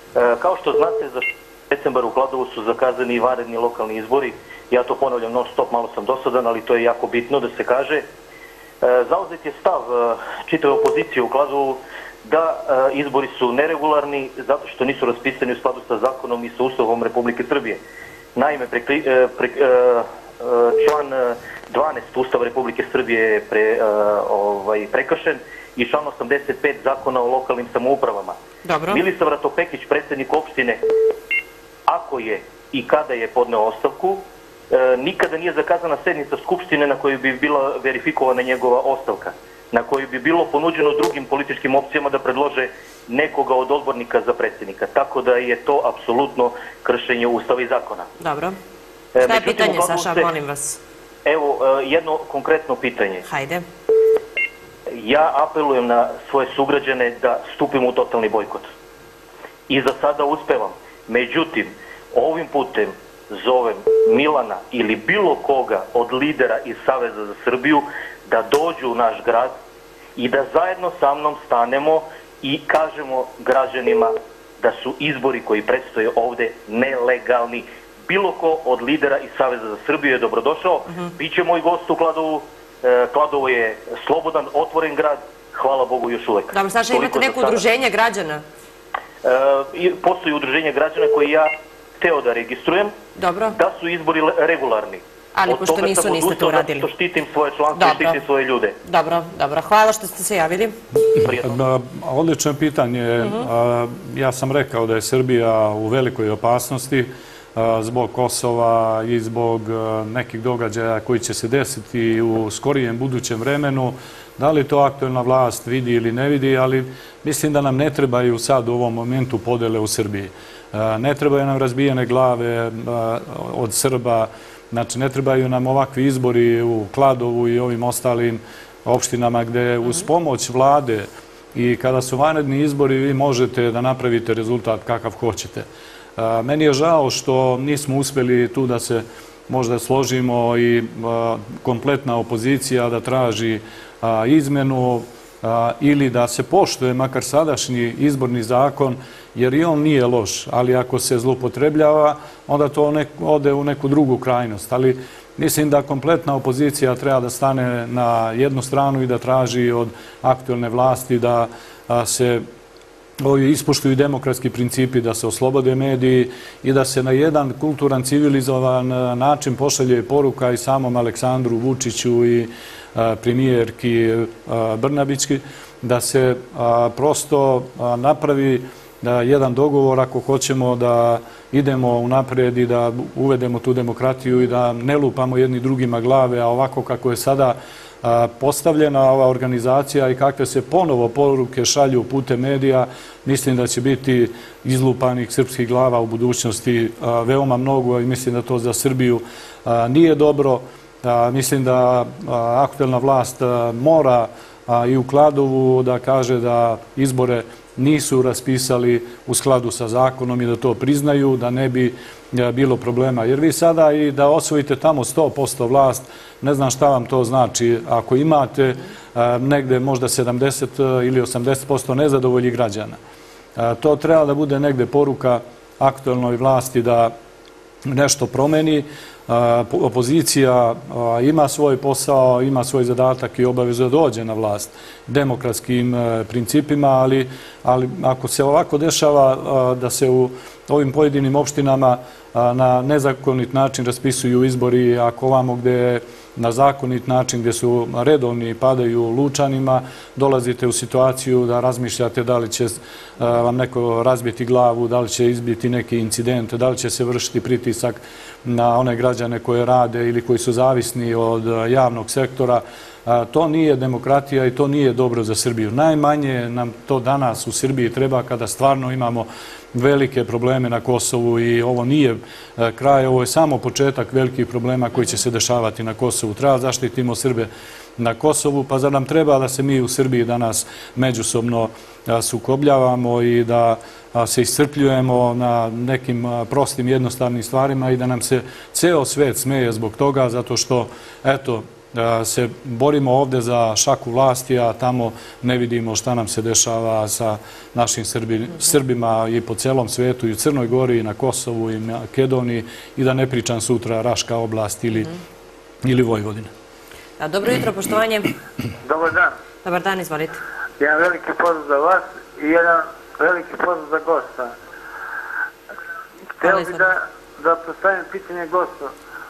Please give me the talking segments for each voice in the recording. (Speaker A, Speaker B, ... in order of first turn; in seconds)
Speaker A: 0.1-8.1, 8.8-17.8, 18.4-28.4, 28.9-30.8, 31.9-48.1, 49.1-50.3, 51.2-53.2, 54.9-58.7, 59.7-69.6, 70.2-87.6, 89.2-93.0, 93.5-98.8, 101.2-101.6
Speaker B: 28.6-29.0, 48.2-48.6, 49.2-50.8, 53.3-53.6, 86.5-88.4, 93.2-93.6, 95.3-96.9, 97.8-98.2, 98.8-100.8, 103.2-103.5, 307.2-308.3, 309.6-310.4, 316.4-316.9
Speaker C: 101.2-162.4, 163.2-223.0, 223.6-227.1, 227.8-305.1, 305.8-306.5
Speaker D: 308.8-309.3, 310.8-314.5, 316.4-318.9